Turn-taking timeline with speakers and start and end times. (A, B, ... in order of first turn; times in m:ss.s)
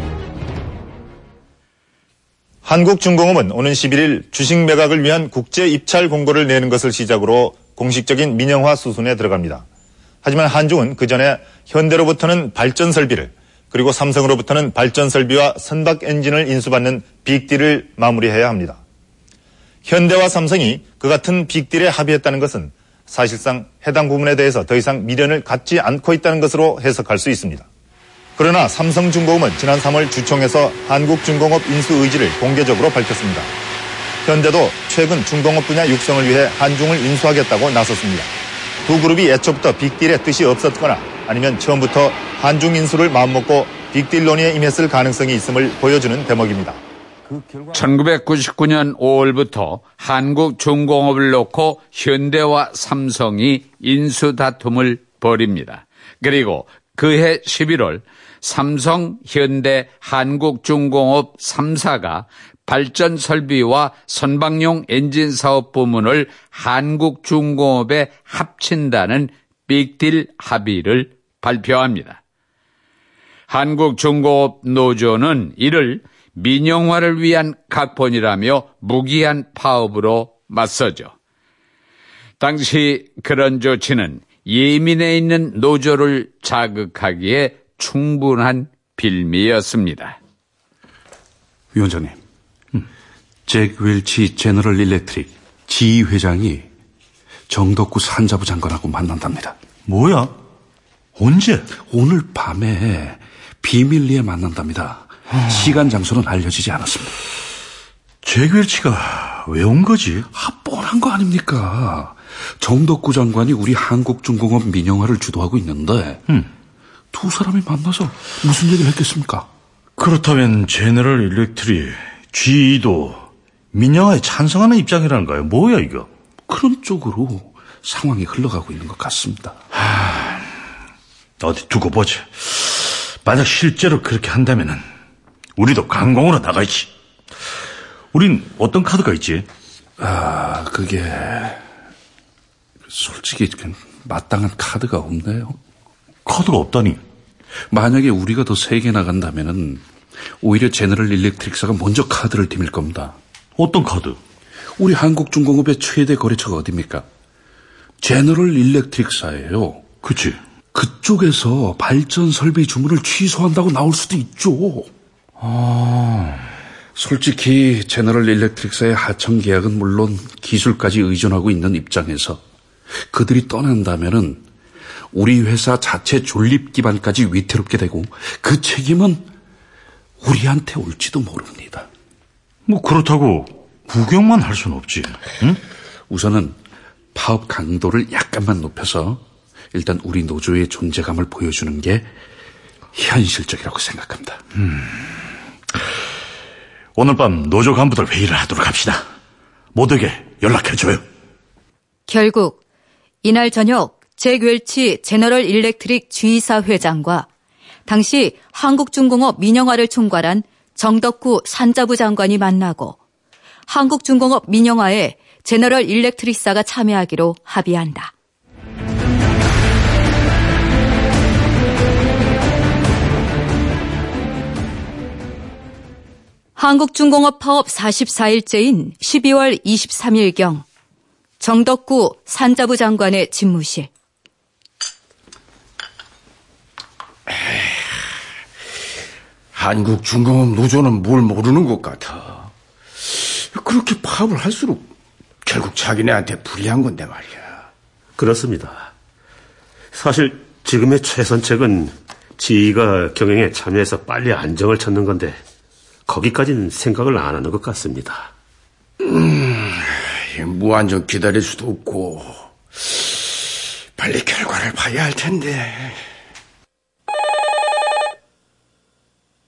0:02.6-0:09.6 A
0:10.2-0:18.8 A
0:19.8-0:27.7 A
0:28.4-0:33.5 A
0:34.2-0:38.3 A
0:38.9-0:46.8 A
0:47.7-1:12.2 B
1:13.5-1:21.1 B
1:22.4-1:30.2 B
1:31.7-1:32.2 C
1:33.5-1:36.7 C
1:37.5-1:39.6 C
1:39.8-1:40.4 D
1:41.2-1:41.6 D
1:41.8-1:47.2 C
1:45.3-1:45.8 D
1:48.2-1:50.3 D
1:50.3-1:56.2 C
1:57.1-1:59.5 C
2:00.0-2:06.1 D
2:06.5-2:09.6 C
2:09.9-2:10.4 D
2:11.4-2:14.8 D
2:15.6-2:16.9 D
2:18.1-2:19.5 D
2:20.0-2:21.6 C
2:22.9-2:25.6 C
2:26.2-2:27.0 D
2:27.7-2:29.8 C
2:30.4-2:33.2 C
2:33.6-2:34.2 D
2:34.8-2:37.1 C
2:38.0-2:39.9 C
2:40.0-2:40.4 D
2:40.7-2:44.9 C
2:45.4-2:46.4 D
2:47.0-2:52.4 C
2:53.0-2:54.4 C
2:55.1-2:59.3 C
3:00.2-3:01.9 C
3:02.7-3:05.6 D
3:06.1-3:06.6 C
3:07.1-3:12.1 C
3:12.9-3:14.4 C
3:17.0-3:19.1 D
3:19.7-3:21.1 D
3:22.1-3:22.6 E
3:23.2-3:27.3 E
3:27.9-3:33.0 E
3:33.7-3:38.1 E
3:46.6-3:50.6 E
3:51.4-3:53.9 E
3:57.4-3:57.7 F
3:59.5-4:02.5 F
4:03.1-4:04.8 F
4:05.4-4:07.7 F
4:08.2-4:08.9 G
4:09.9-4:15.4 G
4:16.1-4:18.3 G
4:19.0-4:23.2 F
4:24.0-4:26.0 F